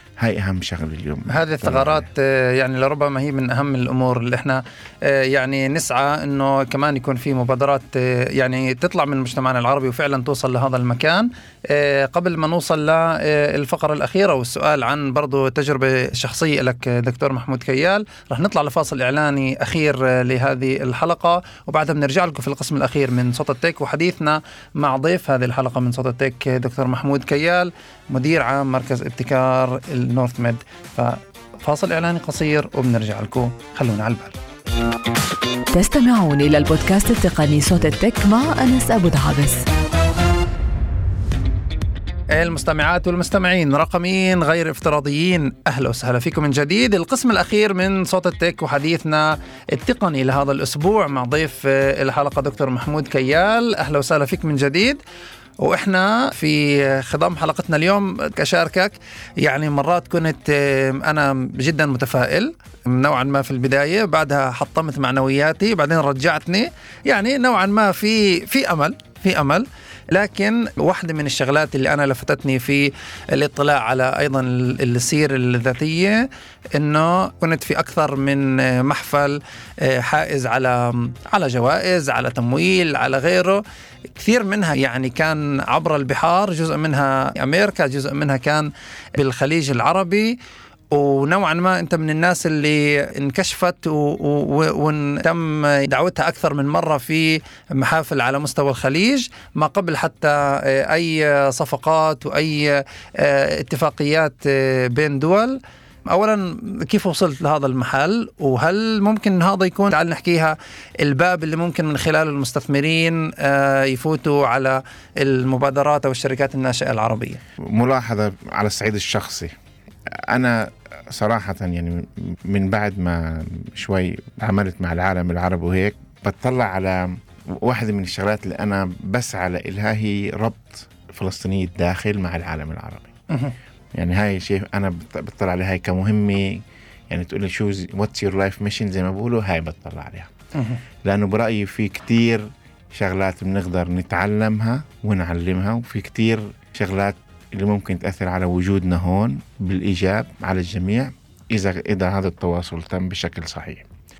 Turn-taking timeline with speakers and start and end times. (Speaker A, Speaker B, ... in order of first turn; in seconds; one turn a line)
Speaker A: 0.2-2.1
Speaker B: 1.3-34.3
Speaker C: 35.7-39.6
Speaker B: 42.3-55.0
Speaker B: 55.6-83.6
Speaker B: 84.1-90.4
Speaker B: 90.9-117.4
Speaker A: 117.7-119.5
Speaker A: 120.3-133.1
Speaker A: 133.9-140.3
Speaker B: 140.5-140.8
Speaker A: 141.0-153.8